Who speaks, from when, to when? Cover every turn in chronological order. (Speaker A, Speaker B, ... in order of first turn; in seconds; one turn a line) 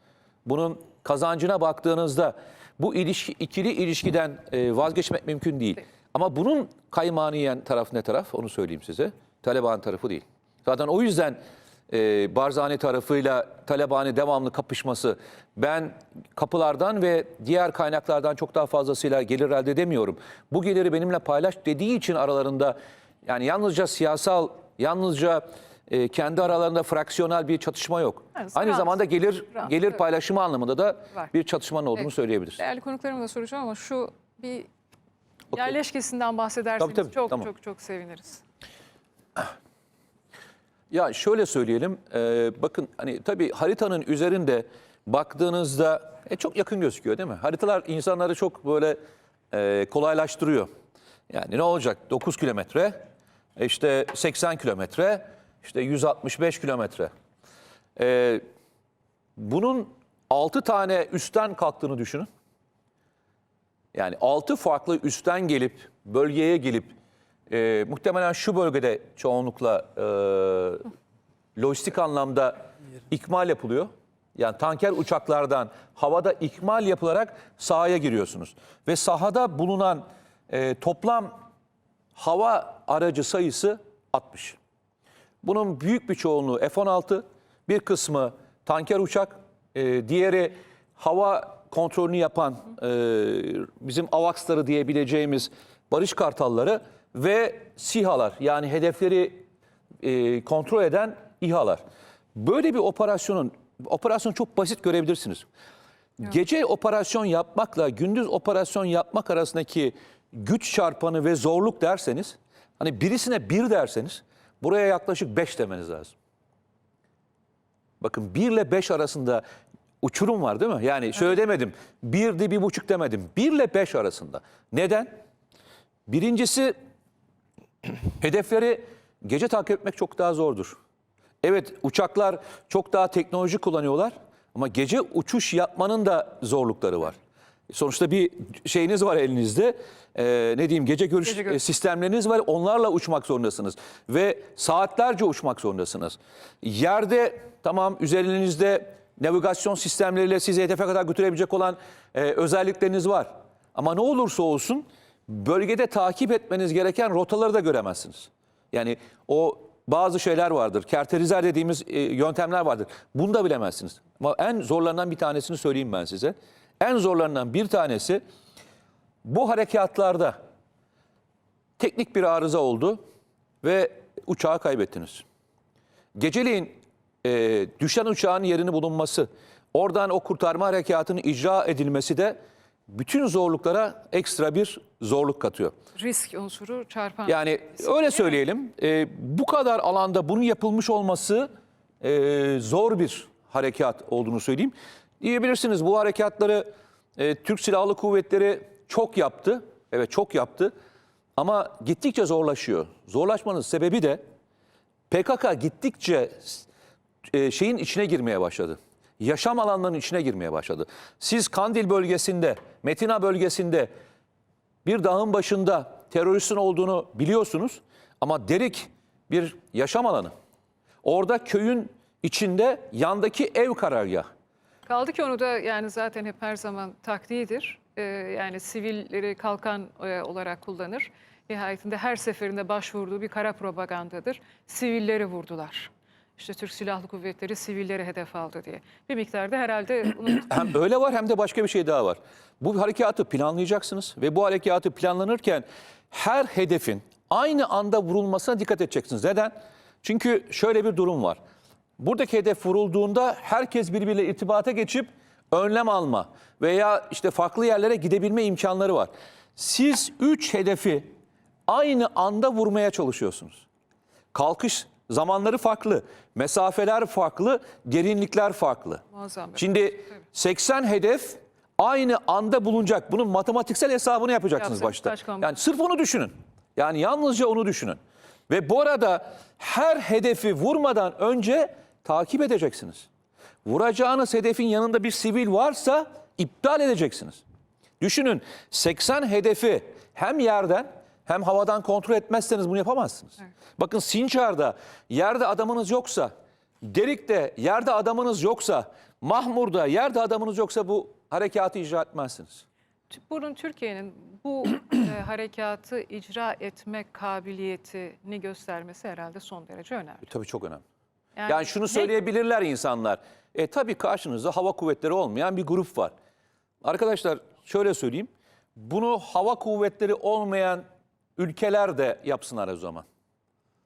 Speaker A: 0.4-22.7
Speaker A: 23.2-32.6
Speaker B: 28.3-29.0
Speaker B: 32.6-34.7
Speaker B: 35.5-38.4
Speaker A: 36.8-37.5
Speaker A: 40.9-49.0
Speaker A: 49.5-50.7
Speaker A: 51.3-53.0
Speaker A: 53.6-57.1
Speaker A: 58.0-58.4
Speaker A: 59.4-62.3
Speaker A: 63.9-66.9
Speaker A: 67.5-70.9
Speaker A: 71.5-81.3
Speaker A: 82.2-84.6
Speaker A: 85.4-99.4
Speaker A: 100.0-101.8
Speaker A: 102.3-105.5
Speaker A: 106.2-116.1
Speaker A: 118.0-119.4
Speaker A: 120.0-125.2
Speaker A: 126.1-126.7
Speaker A: 128.2-130.7
Speaker A: 131.4-137.2
Speaker A: 137.7-168.2
Speaker A: 169.2-170.4
Speaker A: 171.8-173.0
Speaker A: 173.6-175.2
Speaker A: 176.2-182.3
Speaker A: 182.9-185.7
Speaker B: 185.9-187.9
Speaker A: 187.3-191.5
Speaker A: 192.0-196.7
Speaker A: 197.2-200.7
Speaker A: 201.4-204.2
Speaker A: 205.1-206.7
Speaker A: 207.3-213.9
Speaker A: 214.8-220.3
Speaker A: 221.0-224.3
Speaker B: 224.9-240.5
Speaker A: 240.5-251.4
Speaker A: 252.0-261.1
Speaker A: 261.7-263.6
Speaker A: 264.3-269.0
Speaker B: 269.1-269.6
Speaker A: 269.6-278.0
Speaker B: 274.6-275.5
Speaker A: 278.5-283.1
Speaker A: 283.6-287.4
Speaker A: 288.0-296.3
Speaker A: 296.8-302.6
Speaker B: 303.1-310.3
Speaker A: 310.2-310.8
Speaker B: 311.4-312.1
Speaker A: 311.5-316.1
Speaker A: 316.8-320.8
Speaker A: 321.4-323.0